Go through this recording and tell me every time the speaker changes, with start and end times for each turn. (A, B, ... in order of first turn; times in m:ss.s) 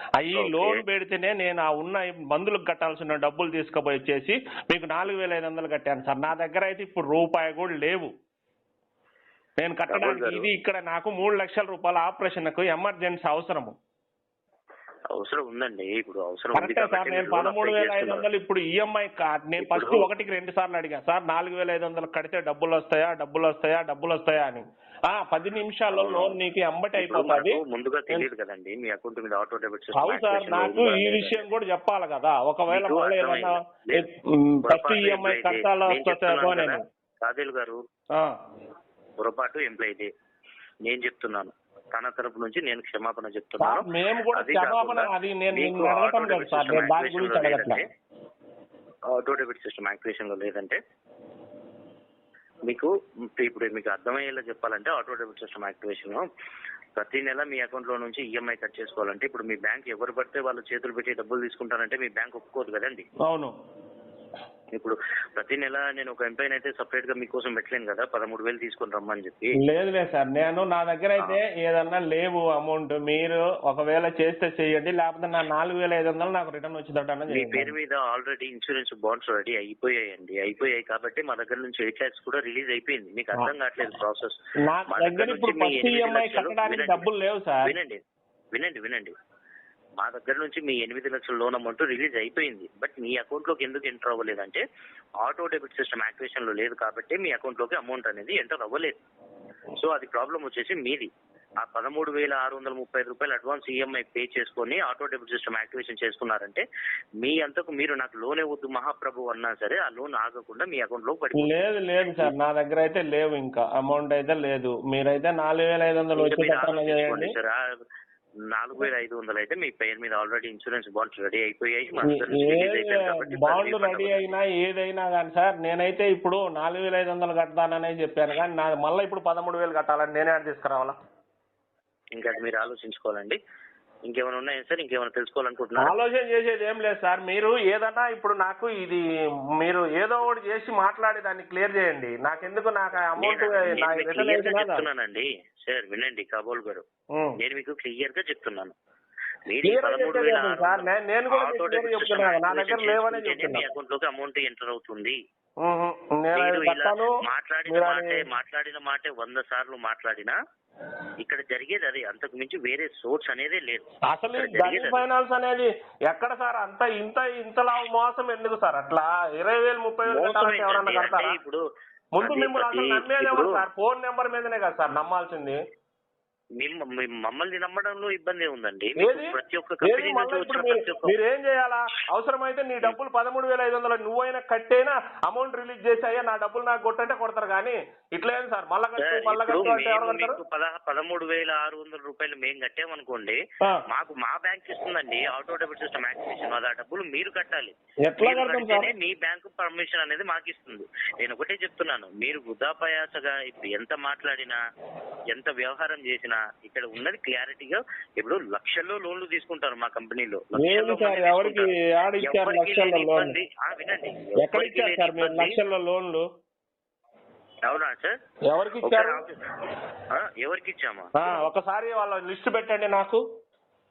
0:00.2-0:08.1 A
0:00.4-0:00.8 B
0:09.6-0:13.8 A
0:09.9-0:10.5 B
0:15.1-0:18.2 B
0:16.5-0:28.3 A
0:19.6-0:20.1 B
0:25.9-0:26.4 B
0:27.0-0:31.4 B
0:29.9-0:36.8 A
0:32.7-0:34.1 B
0:34.7-0:37.8 B
0:39.2-0:40.1 B
0:40.8-0:47.8 B
0:43.6-0:47.8 A
0:49.1-0:50.8 B
0:52.6-0:56.2 B
0:57.0-1:03.0 B
1:03.2-1:03.5 A
1:04.7-1:09.6 B
1:09.5-1:17.7 A
1:17.3-1:27.1 B
1:24.7-1:27.7 A
1:27.6-1:28.0 B
1:28.5-1:29.1 B
1:30.0-1:34.6 B
1:35.2-1:39.0 B
1:39.7-1:41.1 B
1:41.6-1:46.6 B
1:47.2-1:52.3 B
1:51.4-1:57.4 A
1:56.2-1:57.6 B
1:58.5-2:04.4 B
2:02.0-2:11.0 A
2:12.1-2:13.4 B
2:14.1-2:15.9 B
2:15.8-2:19.0 A
2:19.6-2:24.9 A
2:23.2-2:26.9 B
2:27.1-2:27.4 A
2:27.4-2:28.7 B
2:29.4-2:35.2 B
2:29.6-2:33.6 A
2:35.6-2:38.3 A
2:36.4-2:40.4 B
2:41.2-2:45.0 B
2:44.1-2:51.4 A
2:50.1-2:51.6 B
2:52.1-2:55.6 A
2:52.2-2:53.6 B
2:56.6-3:01.2 B
2:59.0-3:10.4 A
3:09.0-3:24.6 B
3:18.0-3:18.9 A
3:25.3-3:31.7 B
3:30.6-3:33.4 A
3:32.2-3:35.6 B
3:34.4-3:36.2 A
3:37.6-3:38.2 B
3:38.5-3:39.2 A
3:38.8-3:39.4 B
3:40.1-3:41.3 B
3:41.2-3:43.2 A